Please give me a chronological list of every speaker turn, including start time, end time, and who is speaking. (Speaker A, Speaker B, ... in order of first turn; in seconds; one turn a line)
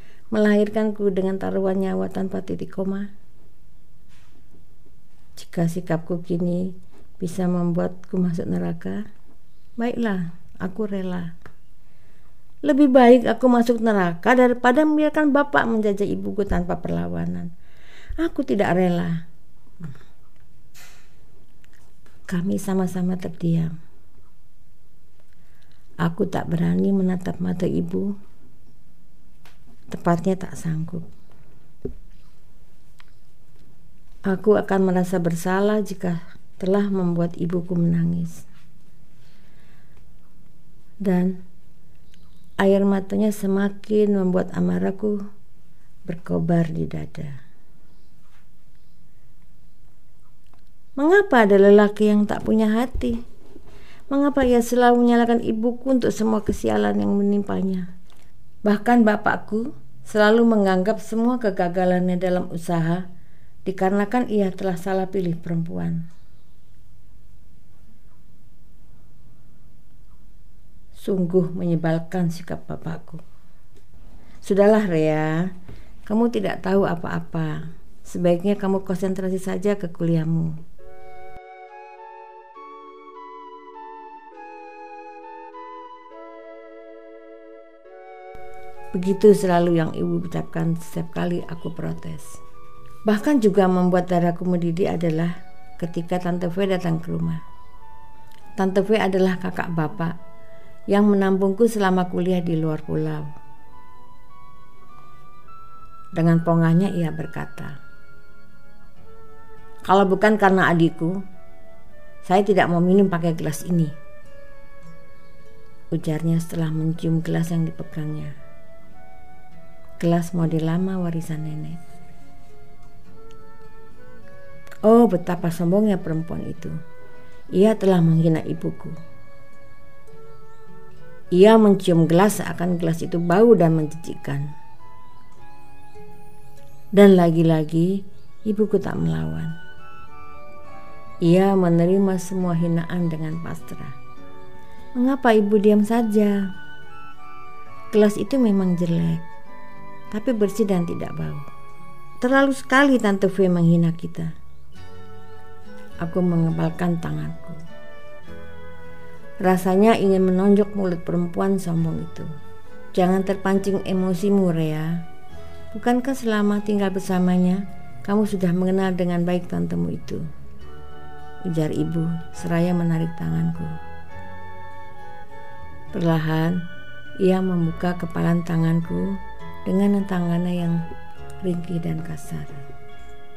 Speaker A: 0.3-3.1
Speaker A: 5.4-9.0
Speaker A: 9.8-11.3
Speaker A: 12.6-17.5
Speaker A: 18.2-19.2
Speaker A: 22.3-23.7
Speaker A: 26.0-28.1
Speaker A: 29.9-31.1
Speaker A: 34.3-38.4
Speaker A: 41.0-41.4
Speaker A: 42.6-45.2
Speaker A: 46.1-47.3
Speaker A: 51.0-53.2
Speaker A: 54.1-57.9
Speaker A: 58.7-63.0
Speaker A: 63.6-66.0
Speaker A: 71.0-73.2
Speaker A: 74.4-75.5
Speaker A: 76.1-80.5
Speaker A: 88.9-92.4
Speaker A: 93.1-97.4
Speaker A: 98.6-100.2
Speaker A: 100.9-103.3
Speaker A: 106.2-107.8
Speaker A: 109.9-111.2
Speaker A: 112.2-113.9
Speaker A: 115.9-118.3
Speaker A: 120.0-121.8
Speaker A: 124.8-126.8
Speaker A: 127.5-129.0
Speaker A: 131.3-134.5
Speaker A: 137.0-139.6
Speaker A: 141.2-143.9
Speaker A: 145.0-146.5
Speaker A: 147.9-149.2
Speaker A: 150.1-151.4
Speaker A: 152.2-154.3
Speaker A: 156.0-157.6
Speaker A: 159.4-162.3
Speaker A: 162.9-165.0
Speaker A: 165.7-170.2
Speaker A: 171.5-173.8
Speaker A: 175.9-176.6
Speaker A: 177.2-180.8
Speaker A: 181.4-182.6